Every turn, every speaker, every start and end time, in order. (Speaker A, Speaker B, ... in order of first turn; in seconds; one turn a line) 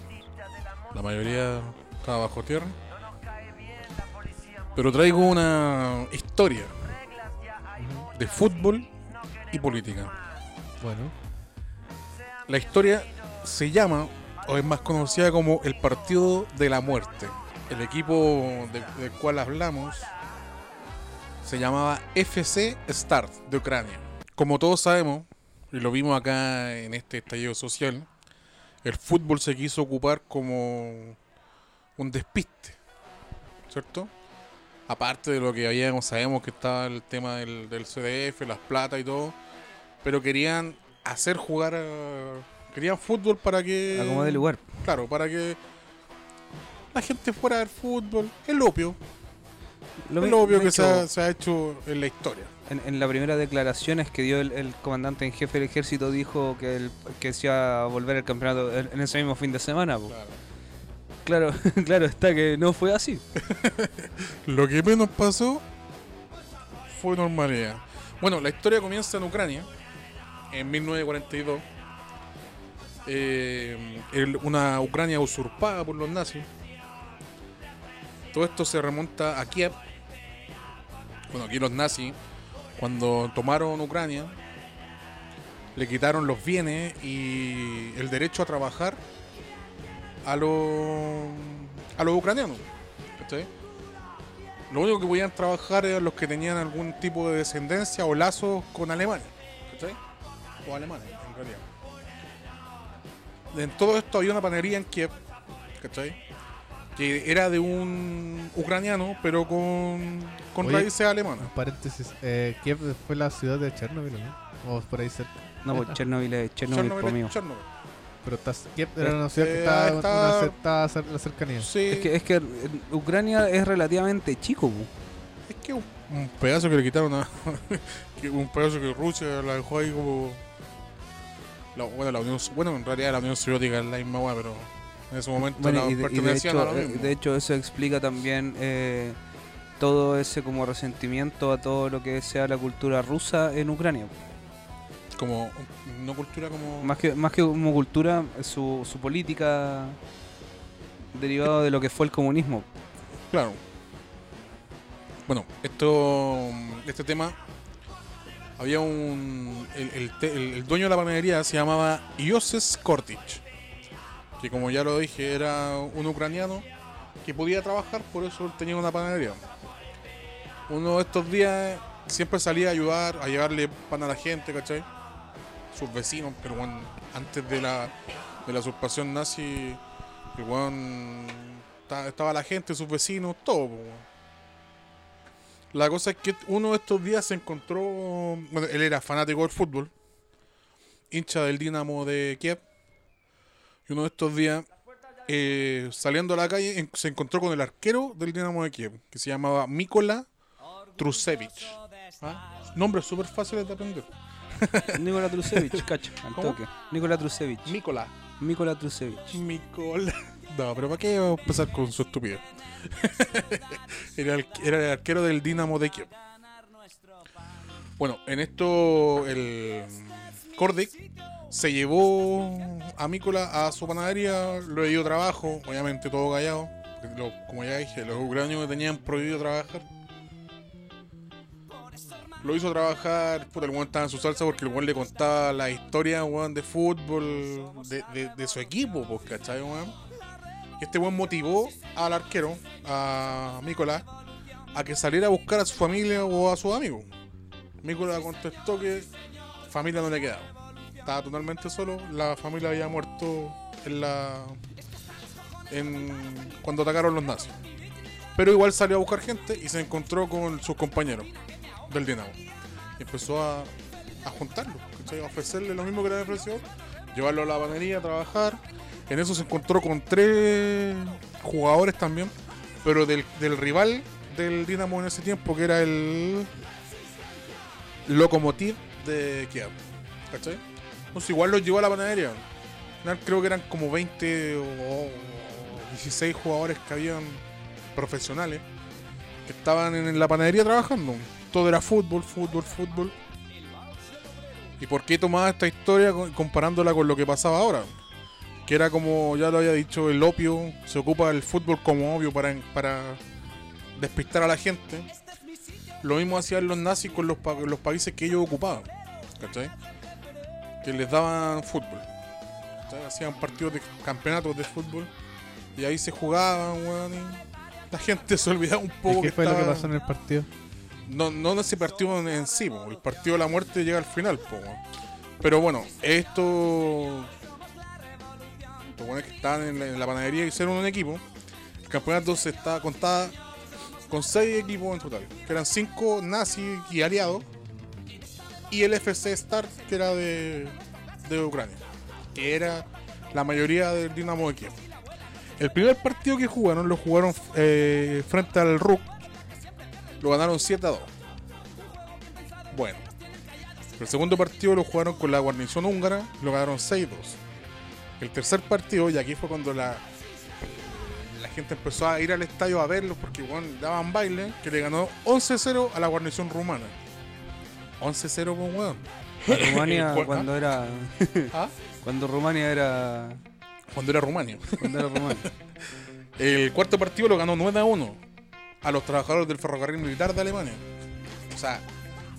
Speaker A: 0.9-2.8
Speaker A: 4.7-6.7
Speaker B: 7.8-8.1
Speaker A: 8.1-8.9
Speaker A: 9.5-10.1
Speaker B: 10.8-11.1
Speaker A: 12.5-20.1
Speaker A: 21.4-28.1
Speaker A: 28.8-31.2
Speaker A: 32.0-32.8
Speaker A: 33.7-34.1
Speaker A: 34.9-39.4
Speaker A: 40.0-45.6
Speaker C: 43.9-44.7
Speaker A: 46.9-49.0
Speaker C: 50.0-51.1
Speaker A: 50.2-52.5
Speaker C: 52.7-60.1
Speaker A: 60.1-60.4
Speaker C: 61.2-63.2
Speaker A: 63.4-65.6
Speaker A: 66.9-69.7
Speaker A: 70.5-71.6
Speaker A: 73.0-76.5
Speaker A: 78.3-79.8
Speaker A: 81.3-82.2
Speaker A: 82.8-84.4
Speaker A: 85.8-89.0
Speaker A: 90.2-92.7
Speaker A: 93.2-93.5
Speaker A: 94.7-100.0
Speaker A: 100.6-101.6
Speaker A: 103.5-105.1
Speaker A: 105.8-106.2
Speaker A: 106.9-111.5
Speaker B: 110.6-116.0
Speaker C: 115.6-117.3
Speaker A: 116.7-117.7
Speaker B: 118.2-121.7
Speaker A: 119.0-120.5
Speaker A: 121.6-122.1
Speaker C: 121.9-124.9
Speaker A: 125.5-130.4
Speaker A: 131.7-137.1
Speaker C: 135.4-139.2
Speaker C: 139.8-144.1
Speaker A: 145.2-147.0
Speaker C: 146.8-150.0
Speaker C: 151.1-152.7
Speaker A: 153.3-153.6
Speaker A: 155.3-157.4
Speaker A: 158.6-163.4
Speaker A: 164.4-166.7
Speaker A: 167.2-169.4
Speaker A: 170.7-174.8
Speaker A: 175.7-177.9
Speaker A: 178.4-179.8
Speaker A: 180.3-184.0
Speaker A: 185.7-189.9
Speaker A: 191.1-192.6
Speaker A: 193.9-194.7
Speaker A: 195.3-200.2
Speaker A: 200.9-205.8
Speaker C: 204.9-207.8
Speaker A: 207.6-208.2
Speaker C: 208.4-209.4
Speaker A: 209.3-216.1
Speaker A: 218.0-229.8
Speaker A: 232.4-239.9
Speaker A: 240.8-244.1
Speaker A: 244.7-247.1
Speaker A: 247.8-249.1
Speaker A: 249.7-250.5
Speaker A: 251.0-254.6
Speaker A: 255.7-257.6
Speaker A: 258.3-261.3
Speaker A: 261.9-262.4
Speaker A: 263.0-263.7
Speaker A: 264.2-276.5
Speaker A: 278.1-279.7
Speaker A: 280.3-280.6
Speaker A: 281.1-282.4
Speaker A: 283.0-287.4
Speaker A: 287.9-288.6
Speaker A: 289.4-293.1
Speaker A: 294.8-297.9
Speaker A: 298.6-303.2
Speaker A: 303.9-305.1
Speaker A: 306.0-309.7
Speaker A: 310.8-312.1
Speaker A: 312.9-315.1
Speaker A: 315.8-319.9
Speaker B: 319.1-320.5
Speaker A: 321.1-324.8
Speaker A: 325.4-327.3
Speaker A: 328.9-331.2
Speaker A: 331.9-333.4
Speaker A: 334.1-337.5
Speaker A: 338.7-341.8
Speaker A: 342.3-344.8
Speaker A: 345.6-349.1
Speaker A: 350.2-351.1
Speaker A: 352.7-353.0
Speaker A: 354.0-357.4
Speaker A: 358.2-360.0
Speaker A: 360.9-366.9
Speaker A: 368.0-370.5
Speaker C: 369.5-373.4
Speaker A: 373.9-375.5
Speaker C: 374.8-375.5
Speaker A: 376.4-378.2
Speaker A: 378.8-380.8
Speaker A: 381.5-381.8